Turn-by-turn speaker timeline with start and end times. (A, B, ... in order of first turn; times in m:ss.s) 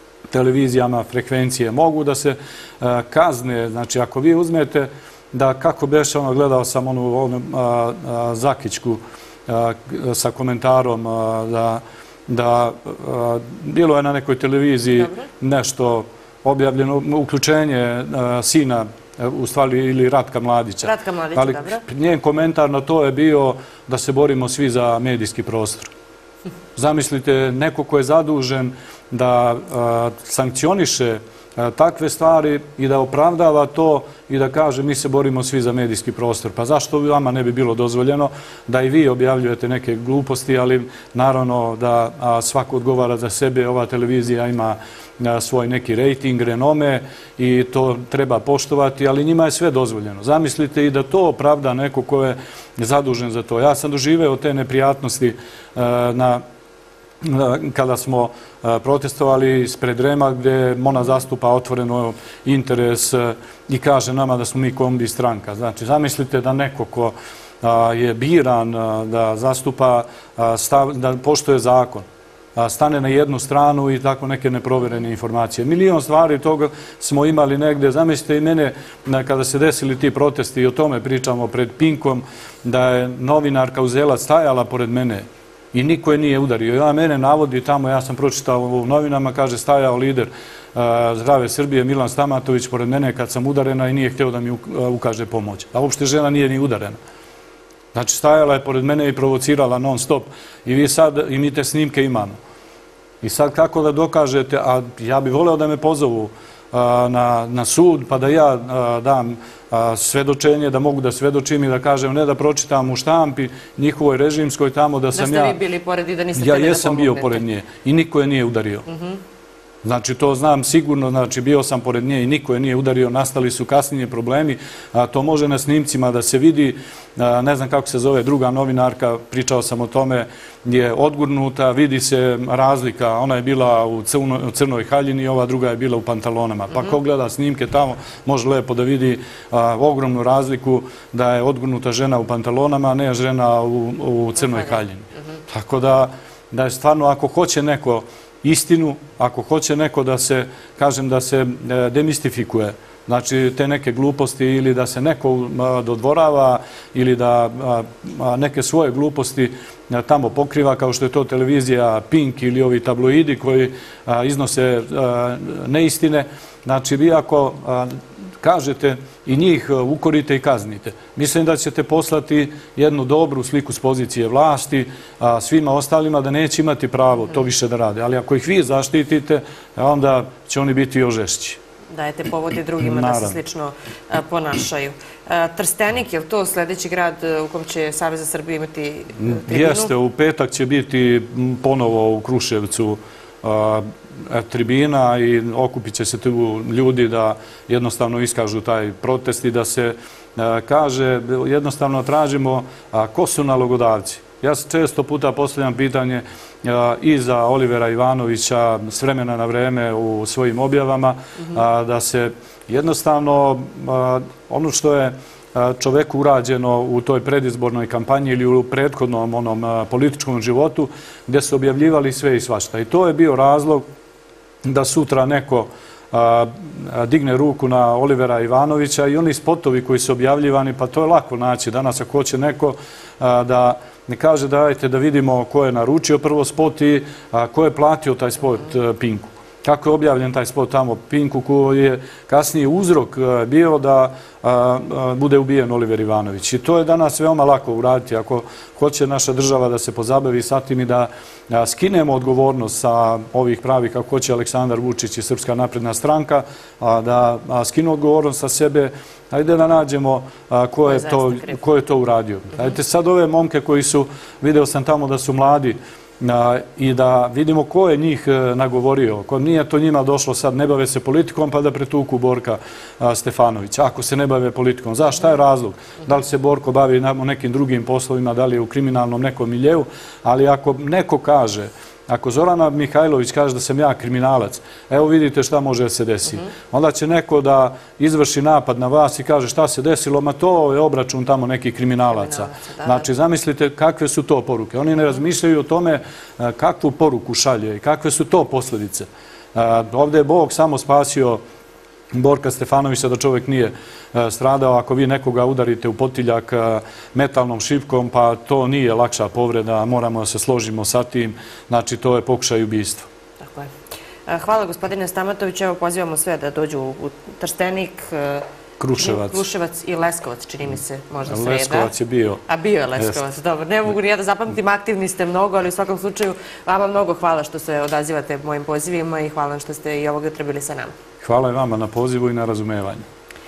0:00.3-0:25.9 A
0:15.0-0:15.2 B
0:20.8-0:21.8 B
0:26.7-0:56.4 A
0:57.2-1:37.0 A
1:37.9-1:42.4 A
1:43.2-1:55.6 A
1:55.1-1:57.4 B
1:56.3-1:58.8 A
1:58.9-1:59.2 B
1:59.8-3:01.6 A
2:24.4-2:24.8 B
3:01.9-3:09.9 B
3:02.8-3:03.4 A
3:09.2-3:43.8 A
3:44.6-5:01.4 A
4:20.9-4:21.6 B
4:52.1-4:53.1 B
5:02.1-5:13.1 A
5:13.4-5:13.7 B
5:14.3-5:18.4 B
5:18.8-5:19.4 A
5:19.0-5:21.9 B
5:21.3-5:22.4 A
5:22.5-5:30.9 B
5:23.0-5:23.2 A
5:31.2-5:33.1 A